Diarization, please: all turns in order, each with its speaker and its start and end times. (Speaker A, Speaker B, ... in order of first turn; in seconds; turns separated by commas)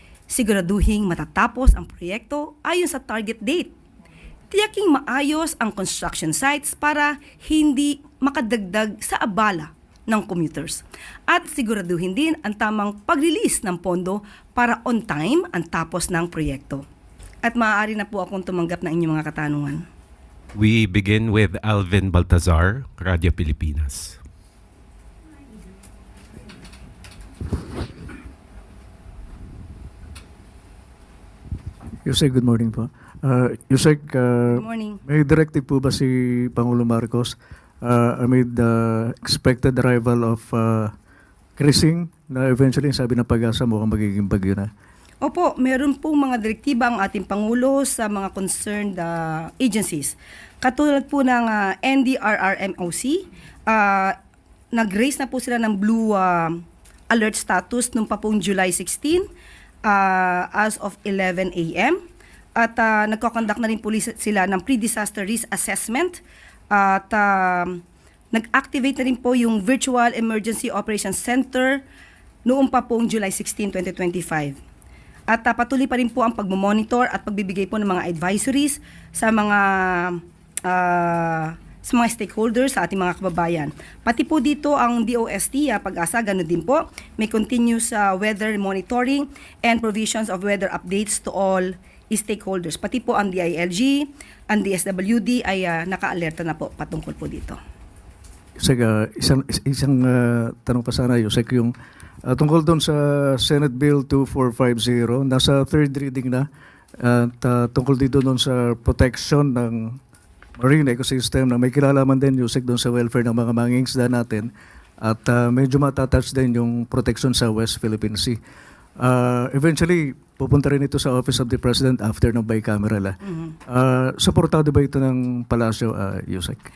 Speaker A: 0.3-3.7, Speaker A: 4.5-16.9, Speaker A: 17.4-19.8, Speaker B: 20.5-24.2, Speaker C: 32.1-34.5, Speaker A: 34.5-35.0, Speaker C: 35.1-37.3, Speaker C: 37.8-40.9, Speaker C: 41.6-44.6, Speaker A: 45.2-54.1, Speaker A: 54.7-59.3, Speaker A: 59.8-62.0, Speaker A: 62.5-71.8, Speaker A: 72.5-74.6, Speaker A: 75.3-97.6, Speaker C: 98.6-101.7, Speaker C: 102.3-106.4, Speaker C: 107.0-109.8, Speaker C: 110.6-114.5, Speaker C: 115.0-118.3, Speaker C: 119.0-123.1, Speaker C: 123.7-126.5